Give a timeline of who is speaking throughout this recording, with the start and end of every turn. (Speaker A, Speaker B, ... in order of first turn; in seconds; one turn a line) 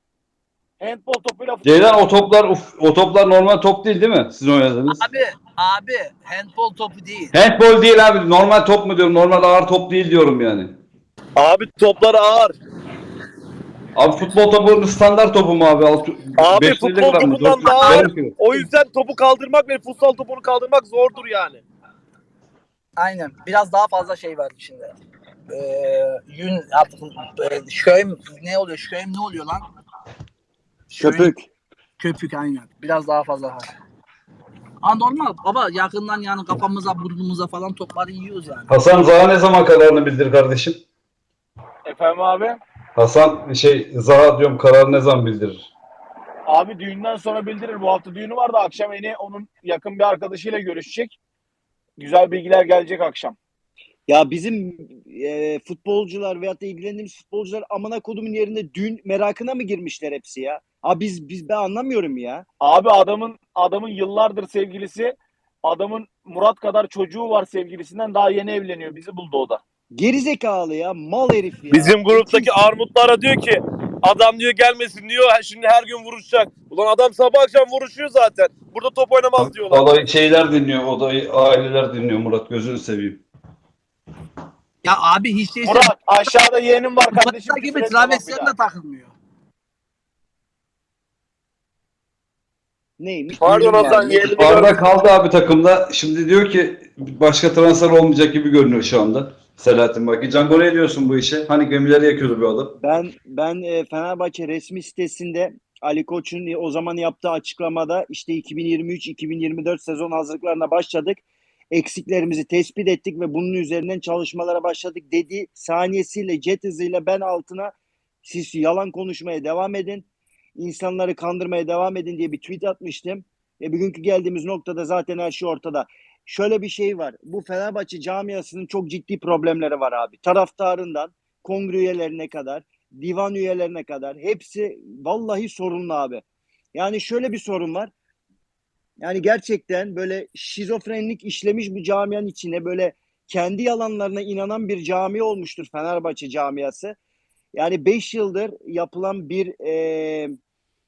Speaker A: 0.8-2.2
Speaker B: 1.6-5.0
Speaker C: 4.9-7.3
Speaker B: 7.3-10.8
Speaker D: 11.4-12.5
Speaker B: 13.9-18.3
Speaker D: 16.4-21.6
Speaker C: 17.5-18.6
Speaker C: 23.0-24.9
Speaker C: 25.5-29.6
Speaker C: 30.9-31.3
Speaker E: 31.0-31.5
Speaker C: 32.0-33.7
Speaker C: 34.8-38.8
Speaker B: 38.7-40.8
Speaker A: 41.9-42.6
Speaker B: 43.0-45.7
Speaker A: 46.5-51.2
Speaker A: 52.0-53.3
Speaker E: 54.1-62.5
Speaker A: 62.6-69.6
Speaker E: 69.9-72.5
Speaker D: 71.7-80.0
Speaker B: 79.4-83.2
Speaker C: 84.8-86.3
Speaker A: 85.6-88.5
Speaker C: 87.1-89.1
Speaker E: 93.0-94.3
Speaker D: 93.4-94.8
Speaker B: 94.3-102.7
Speaker E: 102.8-111.2
Speaker E: 111.7-117.7
Speaker E: 118.2-136.2
Speaker E: 136.7-137.9
Speaker E: 139.0-146.9
Speaker E: 147.5-150.3